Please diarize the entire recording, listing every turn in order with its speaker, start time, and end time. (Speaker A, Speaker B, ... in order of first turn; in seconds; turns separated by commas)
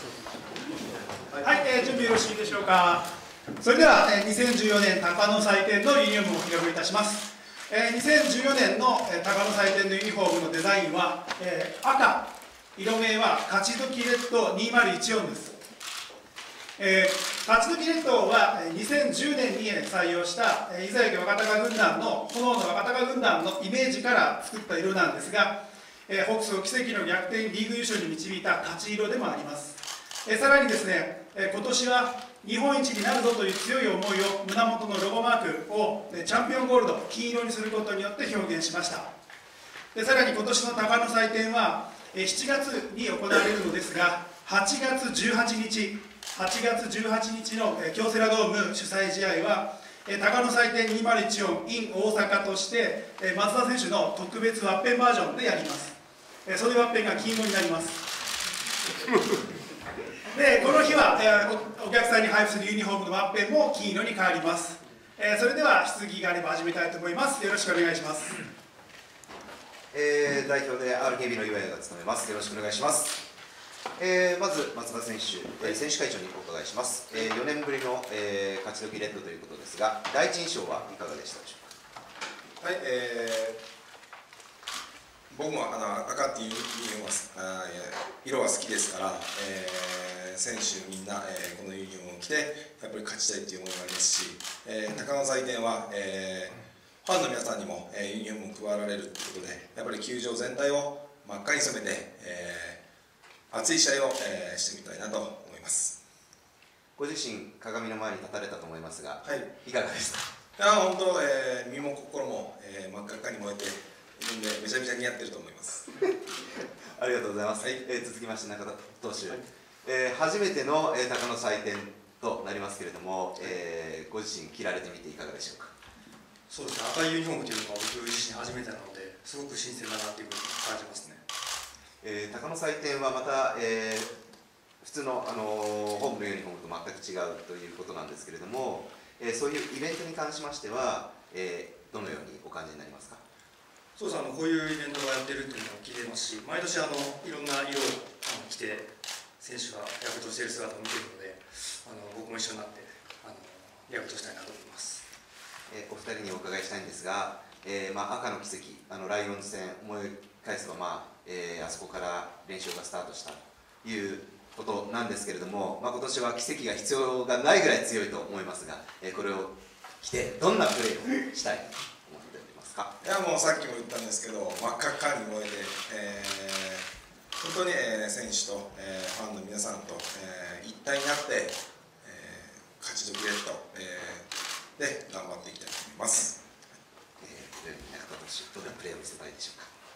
Speaker A: 1.4-3.1, Speaker A: 3.6-15.6, Speaker A: 16.8-39.1, Speaker A: 39.9-58.0, Speaker A: 60.3-68.3, Speaker B: 69.9-73.2, Speaker B: 74.0-81.7, Speaker C: 82.6-83.6, Speaker C: 85.3-102.8, Speaker C: 103.5-106.0, Speaker B: 107.0-110.2, Speaker C: 110.6-115.9, Speaker B: 116.4-125.7, Speaker D: 126.5-131.2, Speaker B: 132.0-134.2, Speaker B: 134.8-143.2, Speaker D: 144.0-148.9, Speaker D: 149.4-155.0, Speaker B: 155.7-172.9, Speaker C: 173.0-176.8, Speaker C: 177.4-186.4, Speaker B: 187.2-189.7